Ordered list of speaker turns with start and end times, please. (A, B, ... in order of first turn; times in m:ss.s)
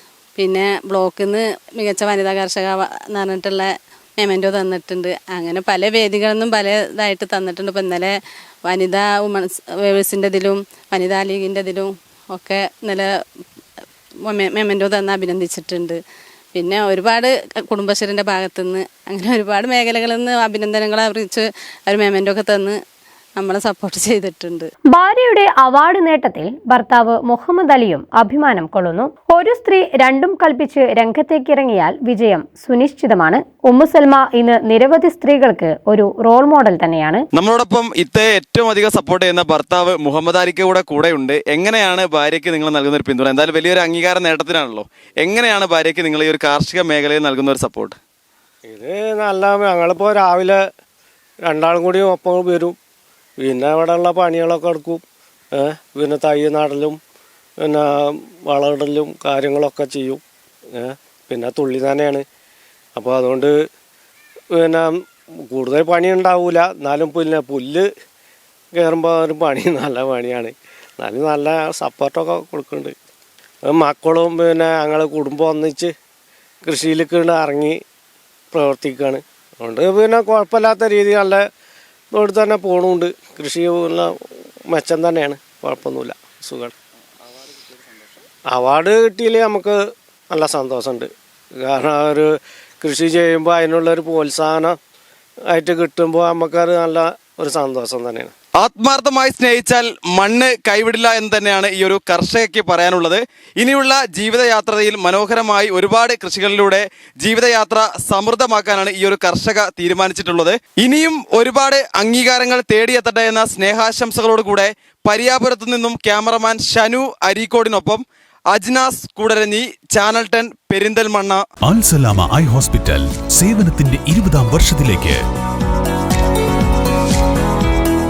0:00.4-0:08.2 A
0:08.7-0:13.1 A
0:14.2-0:16.0 A
0:16.6-0:22.8 A
0:23.4-0:24.7 A
0:24.9-0:37.3 B
0:37.4-0:48.0 C
0:48.7-0:50.6 D
0:51.4-0:52.8 D
0:53.4-0:55.0 D
0:55.6-0:57.0 D
0:57.6-1:00.2 D
1:00.7-1:02.2 D
1:03.0-1:03.6 D
1:04.5-1:07.9 D
1:08.8-1:12.9 D
1:13.7-1:15.9 D
1:16.6-1:17.8 D
1:18.5-1:21.4 D
1:22.1-1:24.2 D
1:24.7-1:26.7 D
1:28.5-1:29.8 D
1:30.3-1:34.8 D
1:35.5-1:38.3 D
1:38.6-2:01.4 C
2:01.6-2:05.2 E